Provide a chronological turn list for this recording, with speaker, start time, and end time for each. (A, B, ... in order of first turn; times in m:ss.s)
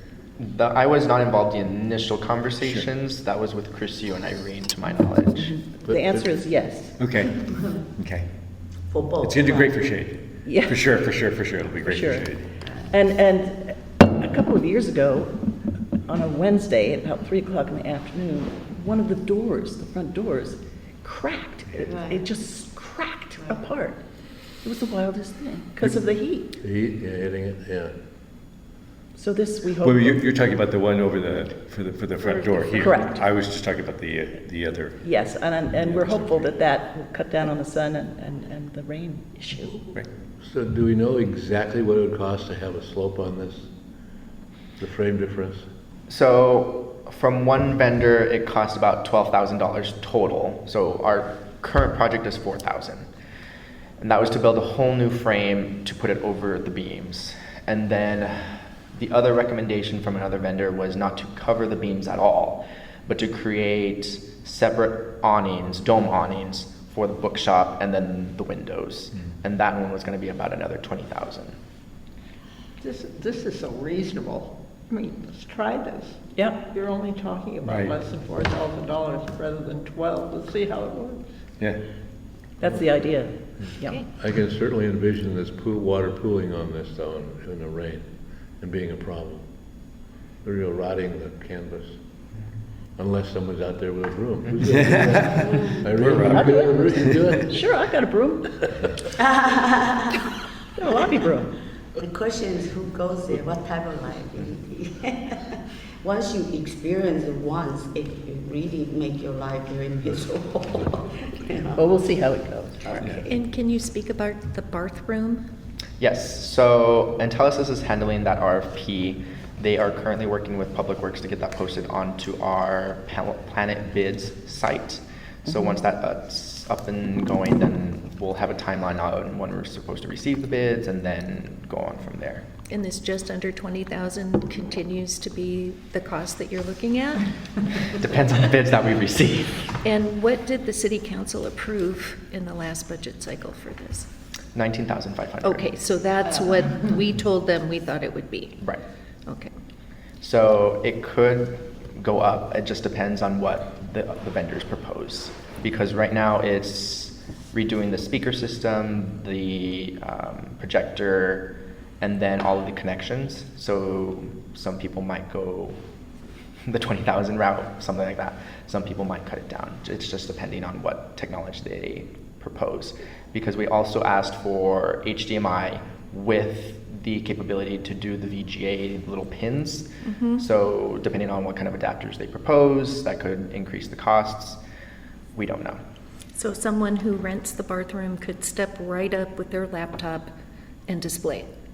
0:00.4-0:05.5 A
0:02.6-0:02.9 B
0:05.4-0:07.0 C
0:05.8-0:06.3 D
0:07.0-0:08.3 B
0:08.9-0:09.8 E
0:09.2-0:12.5 B
0:10.4-0:10.8 C
0:11.9-0:12.3 C
0:12.9-0:15.3 C
0:16.1-0:24.0 C
0:21.8-0:22.2 E
0:24.6-0:26.5 C
0:26.6-0:27.9 D
0:29.2-0:30.2 C
0:29.8-0:35.0 B
0:32.8-0:33.2 C
0:35.0-0:39.8 C
0:35.8-0:36.5 B
0:40.4-0:43.7 D
0:44.8-0:45.7 D
0:46.1-0:53.1 A
0:54.0-1:11.6 A
1:12.8-1:21.3 F
1:16.3-1:16.7 C
1:17.6-1:18.0 B
1:22.6-1:24.0 C
1:24.2-1:28.0 D
1:28.6-1:29.4 D
1:30.4-1:32.0 D
1:33.0-1:37.6 D
1:34.8-1:37.5 B
1:35.3-1:35.8 E
1:36.2-1:38.5 C
1:39.2-1:40.3 E
1:40.8-1:41.5 C
1:42.0-1:51.8 E
1:51.8-1:52.8 C
1:52.8-1:53.2 E
1:53.3-1:55.4 G
1:56.0-2:12.5 A
2:12.7-2:17.2 G
2:18.0-2:19.8 A
2:19.8-2:24.1 G
2:24.6-2:25.7 A
2:25.4-2:28.6 G
2:29.3-2:29.5 G
2:30.2-2:41.5 A
2:42.0-2:45.8 A
2:46.7-2:59.9 A
3:00.0-3:00.4 G
3:00.4-3:04.6 A
3:05.4-3:05.8 A
3:06.4-3:10.3 G
3:10.9-3:11.5 G